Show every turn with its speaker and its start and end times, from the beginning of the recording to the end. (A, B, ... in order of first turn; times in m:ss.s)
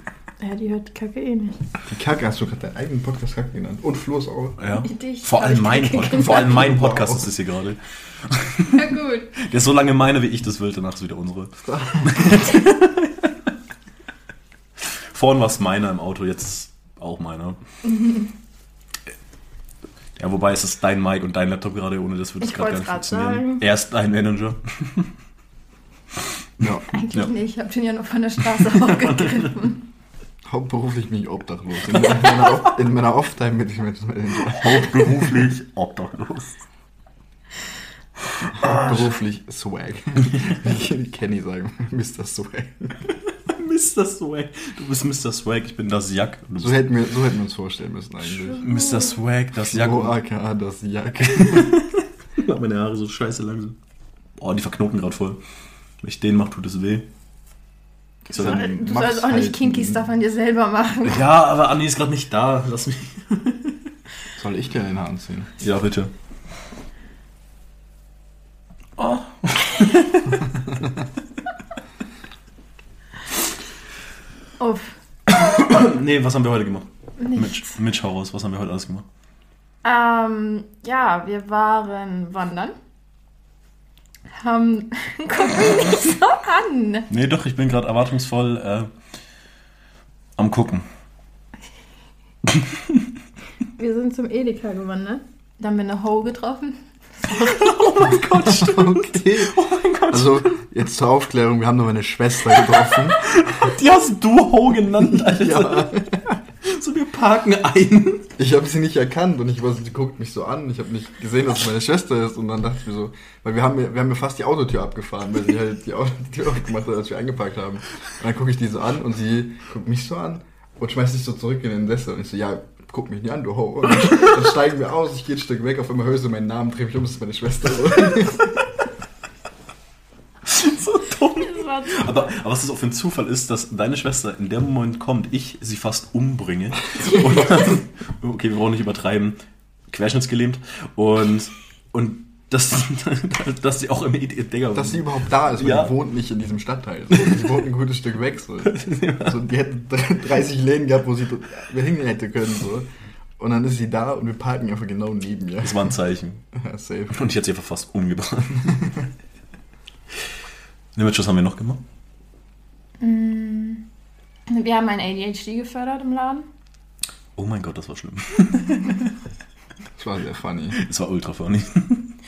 0:00.4-0:01.6 A
0:01.8-0:04.6 B
0:04.6-0:08.8 C
0:04.8-0:06.7 A
0:06.1-0:07.3 B
0:08.7-0:09.3 A
0:09.4-0:13.3 C
0:11.6-0:12.2 B
0:14.8-0:17.6 C
0:17.8-0:18.3 A
0:20.2-0:25.1 C
0:22.4-0:23.6 A
0:26.6-0:26.9 B
0:26.9-0:29.8 A
0:28.6-0:29.5 C
0:30.4-0:35.4 B
0:34.4-0:36.6 C
0:38.6-0:43.0 B
0:38.6-0:38.9 C
0:43.3-0:46.9 C
0:46.6-0:48.6 B
0:48.2-0:49.1 A
0:48.6-0:50.1 C
0:49.7-0:51.8 B
0:51.3-0:53.8 C
0:54.4-0:55.4 C
0:56.0-0:57.1 C
0:58.3-0:58.7 C
0:58.3-1:00.0 B
0:58.4-1:01.2 A
1:01.0-1:03.8 C
1:04.4-1:05.6 B
1:05.6-1:06.1 C
1:09.0-1:10.5 C
1:14.6-1:14.9 A
1:15.3-1:19.0 C
1:17.2-1:17.8 A
1:19.8-1:22.8 A
1:24.4-1:27.1 A
1:27.1-1:28.9 C
1:30.4-1:30.8 C
1:33.8-1:37.8 A
1:37.3-1:40.6 C
1:38.4-1:39.6 B
1:40.1-1:43.5 B
1:42.6-1:46.1 C
1:45.1-1:46.4 B
1:46.6-1:48.3 C
1:48.4-2:08.5 B
2:10.4-2:19.4 C
2:11.4-2:12.3 A
2:17.0-2:17.5 A
2:19.9-2:25.9 C
2:24.7-2:32.9 B
2:27.2-2:27.4 C
2:28.6-2:29.4 C
2:33.4-2:35.9 B
2:35.6-2:36.4 C
2:36.5-2:37.2 B
2:37.1-2:39.0 C
2:40.9-2:41.8 C
2:43.0-2:43.8 A
2:44.5-2:46.5 A
2:47.4-2:49.1 C
2:50.0-2:50.8 B
2:50.8-2:52.1 C